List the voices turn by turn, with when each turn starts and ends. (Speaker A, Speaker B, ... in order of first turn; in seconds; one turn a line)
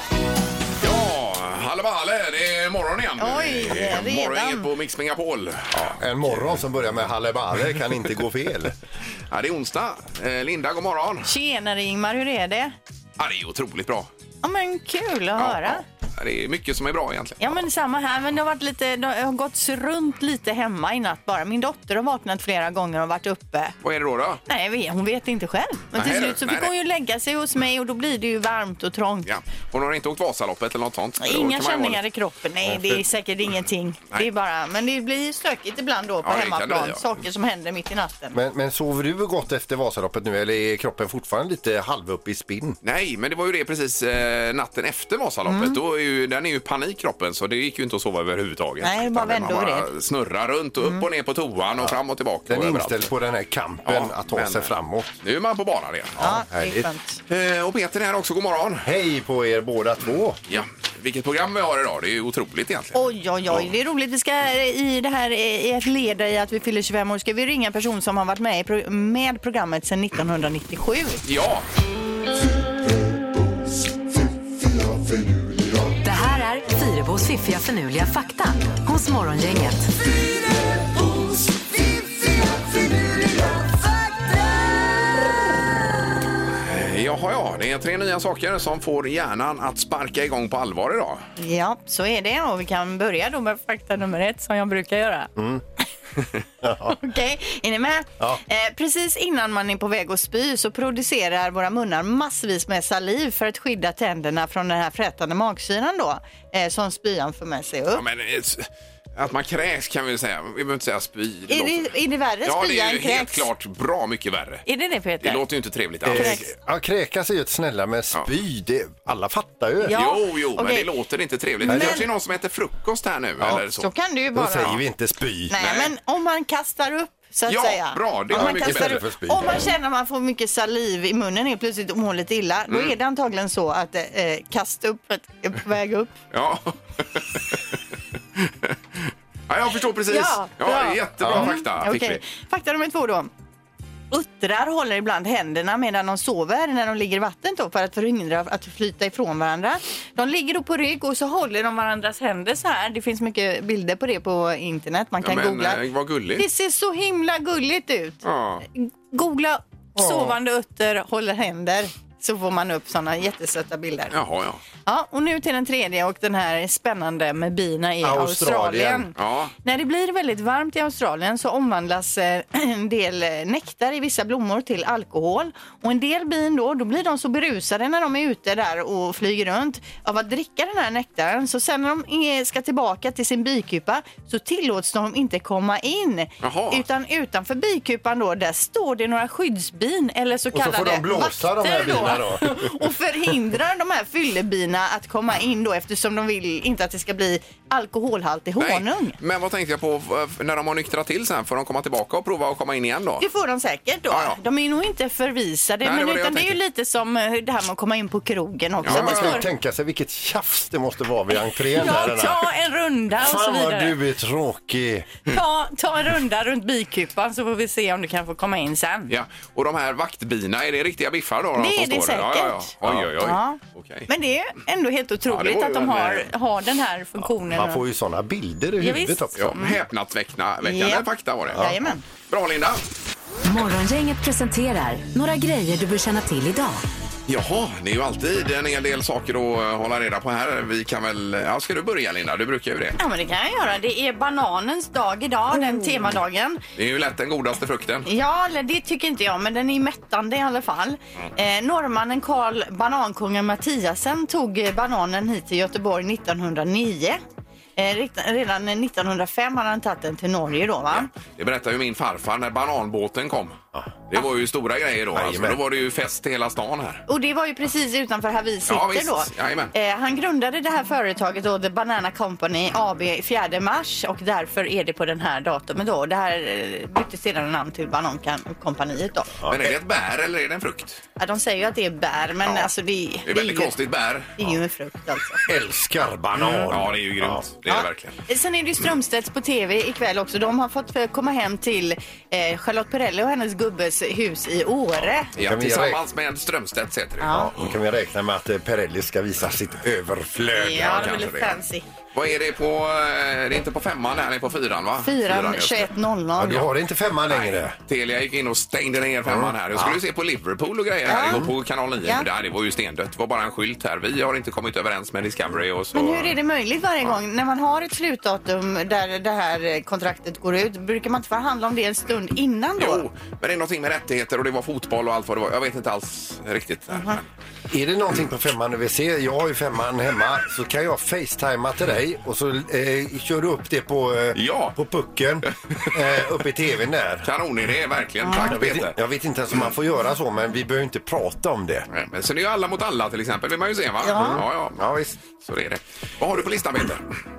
Speaker A: 0.8-6.5
Speaker B: 3.2-4.7
Speaker C: 5.7-8.7
Speaker A: 9.3-11.3
Speaker B: 11.2-12.7
Speaker A: 13.2-14.1
Speaker B: 14.4-15.8
Speaker A: 15.4-17.6
Speaker B: 17.4-23.8
Speaker A: 23.8-24.4
Speaker B: 24.4-29.3
Speaker A: 25.9-26.7
Speaker A: 29.2-32.0
Speaker B: 31.2-38.3
Speaker A: 36.2-37.1
Speaker C: 38.3-42.8
Speaker A: 42.8-53.1
Speaker B: 45.4-45.8
Speaker B: 48.8-49.9
Speaker C: 52.5-55.1
Speaker A: 53.9-56.2
Speaker C: 56.2-56.9
Speaker B: 56.2-57.2
Speaker A: 57.3-58.9
Speaker C: 58.8-60.4
Speaker A: 60.5-63.0
Speaker B: 62.9-71.2
Speaker A: 71.2-71.7
Speaker D: 76.0-79.9
Speaker A: 86.6-91.2
Speaker B: 91.4-95.3
Speaker C: 95.4-95.6
Speaker C: 96.6-97.0
Speaker B: 96.9-108.0
Speaker A: 107.9-111.9
Speaker B: 111.5-113.5
Speaker A: 112.4-114.7
Speaker B: 114.7-115.4
Speaker A: 115.2-116.4
Speaker C: 116.0-120.0
Speaker B: 116.1-116.4
Speaker B: 119.8-120.9
Speaker A: 119.9-123.9
Speaker B: 121.6-122.0
Speaker C: 121.6-122.0
Speaker B: 123.5-124.7
Speaker C: 124.3-125.6
Speaker B: 125.5-136.2
Speaker A: 125.6-125.9
Speaker A: 127.5-129.0
Speaker C: 128.3-129.7
Speaker A: 132.7-132.9
Speaker A: 136.3-137.8
Speaker A: 138.3-142.2
Speaker B: 140.1-143.3
Speaker C: 141.2-141.5
Speaker B: 144.1-155.8
Speaker A: 155.2-156.4
Speaker B: 156.3-158.2
Speaker A: 158.2-158.6
Speaker B: 158.7-164.1
Speaker C: 160.0-160.3
Speaker A: 164.1-164.6
Speaker B: 164.8-199.2
Speaker C: 168.0-169.1
Speaker A: 169.2-169.5
Speaker A: 186.4-186.8
Speaker C: 190.5-192.8
Speaker A: 198.6-203.2
Speaker B: 203.2-209.4
Speaker A: 204.1-204.4
Speaker A: 205.8-206.6
Speaker A: 208.8-209.4
Speaker C: 208.8-212.4
Speaker B: 211.8-214.0
Speaker C: 213.2-215.1
Speaker B: 215.2-219.1
Speaker A: 219.1-224.1
Speaker B: 221.6-227.8
Speaker A: 225.3-226.3
Speaker C: 227.5-229.5
Speaker B: 228.8-229.8
Speaker A: 229.4-231.6
Speaker B: 230.6-232.0
Speaker A: 232.2-232.8
Speaker D: 233.4-236.8
Speaker A: 237.3-243.0
Speaker B: 243.0-246.6
Speaker A: 246.8-248.1
Speaker B: 248.1-257.2
Speaker B: 257.8-261.1
Speaker A: 260.9-263.6
Speaker A: 264.1-267.0
Speaker C: 265.1-265.6
Speaker B: 267.1-279.3
Speaker A: 268.7-269.7
Speaker A: 279.5-281.0
Speaker B: 281.2-283.7
Speaker A: 283.2-284.3
Speaker B: 284.4-285.4
Speaker C: 285.5-287.4
Speaker A: 286.7-288.1
Speaker B: 287.7-295.3
Speaker A: 295.3-297.7
Speaker C: 295.4-296.0
Speaker B: 297.2-297.5
Speaker C: 297.2-301.1
Speaker B: 300.5-301.8
Speaker A: 300.8-301.6
Speaker A: 302.1-305.9
Speaker B: 305.0-306.6
Speaker C: 306.4-307.7
Speaker A: 307.3-316.3
Speaker C: 309.2-310.0
Speaker B: 311.1-311.5
Speaker C: 311.2-311.5
Speaker B: 315.9-323.1
Speaker A: 322.8-327.2
Speaker B: 326.9-327.2
Speaker C: 327.7-337.3
Speaker A: 334.3-334.7
Speaker A: 335.8-336.3
Speaker A: 337.2-339.0
Speaker B: 338.2-338.5
Speaker C: 338.4-341.9
Speaker A: 341.9-347.0
Speaker B: 344.0-344.4
Speaker C: 344.1-345.2